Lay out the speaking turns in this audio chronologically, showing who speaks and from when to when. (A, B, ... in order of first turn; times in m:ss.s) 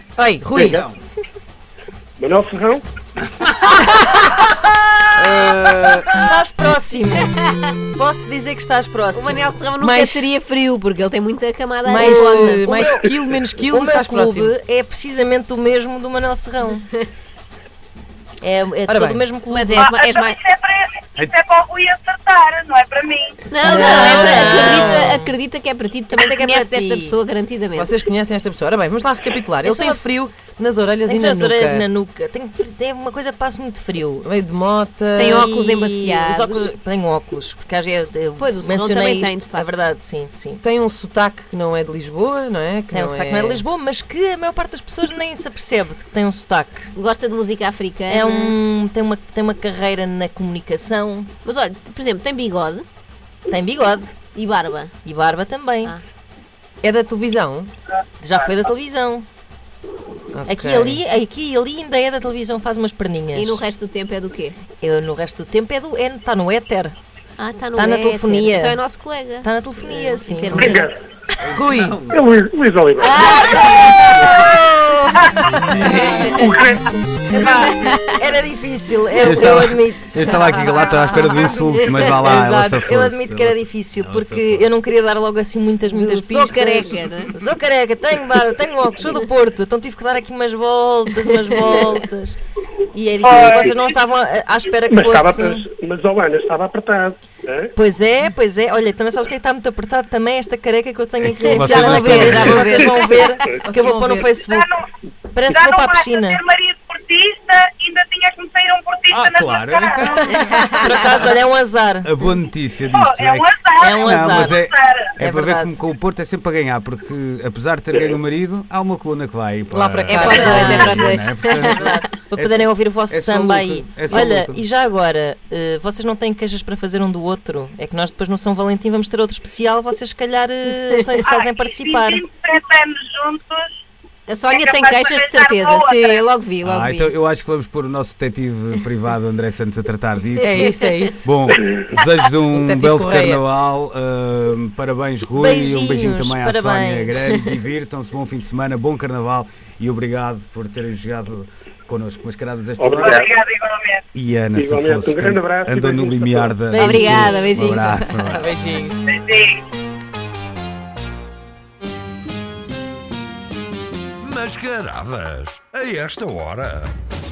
0:00.2-0:00.8 A
0:00.5-0:00.8 B
0:02.2-0:02.8 B
0:03.9-0:07.4 C
0:05.2-0:06.1 A
0:07.3-0:07.7 D
0:07.9-0:09.6 C
0:09.1-0:12.7 D
0:09.8-0:10.3 A
0:11.9-0:14.5 A
0:11.9-0:13.1 C
0:13.7-0:16.8 C
0:16.7-0:17.1 D
0:18.4-0:20.0 C
0:18.9-0:19.2 A
0:19.4-0:20.4 D
0:19.8-0:23.5 E
0:23.5-0:27.9 D
0:23.6-0:25.2 A
0:23.6-0:25.4 C
0:26.1-0:27.2 C
0:27.7-0:31.8 A
0:29.6-0:30.0 C
0:31.0-0:34.2 C
0:34.2-0:35.5 A
0:35.1-0:36.7 D
0:35.2-0:40.6 C
0:38.4-0:39.8 D
0:40.6-0:43.6 A
0:42.9-0:46.9 C
0:46.9-0:48.6 D
0:48.1-0:51.3 C
0:51.4-0:52.8 D
0:53.5-0:54.2 C
0:54.3-0:54.9 D
0:55.0-0:55.9 C
0:56.8-0:57.7 A
0:58.2-0:59.2 C
1:00.3-1:01.0 A
1:00.5-1:03.6 C
1:03.3-1:04.6 D
1:04.7-1:07.0 C
1:07.4-1:10.9 D
1:07.7-1:08.8 C
1:09.4-1:10.8 C
1:10.5-1:11.0 B
1:11.4-1:12.3 F
1:11.5-1:12.0 A
1:12.1-1:13.5 B
1:13.0-1:14.5 D
1:13.3-1:14.5 F
1:14.3-1:16.1 C
1:15.6-1:16.4 F
1:16.1-1:16.6 D
1:16.4-1:17.9 B
1:17.3-1:32.4 C
1:17.5-1:18.2 D
1:19.2-1:19.6 D
1:19.2-1:24.7 F
1:21.2-1:22.2 D
1:25.8-1:27.3 D
1:31.3-1:32.0 D
1:32.9-1:35.6 C
1:33.2-1:33.8 B
1:34.9-1:37.7 B
1:37.7-1:46.4 C
1:41.2-1:43.0 F
1:41.4-1:43.6 D
1:43.4-1:43.8 B
1:43.6-1:44.3 A
1:44.1-1:44.8 E
1:45.5-1:50.2 E
1:49.1-1:51.2 F
1:50.3-1:51.0 D
1:50.6-1:52.1 C
1:52.0-2:04.6 F
1:52.9-1:55.1 E
1:53.8-1:54.6 C
1:55.2-1:55.8 C
1:59.7-2:01.1 A
2:00.1-2:02.0 D
2:00.2-2:12.2 C
2:10.7-2:11.2 D
2:11.2-2:13.7 E
2:14.3-2:17.1 D
2:14.5-2:16.3 E
2:16.6-2:33.3 F
2:20.4-2:21.3 A
2:22.5-2:23.4 A
2:25.4-2:27.4 C
2:32.8-2:33.3 B
2:33.0-2:34.0 E
2:34.1-2:38.6 F
2:34.5-2:36.6 B
2:36.7-2:38.2 D
2:36.7-2:39.0 A
2:39.1-2:39.6 E
2:44.2-2:46.9 G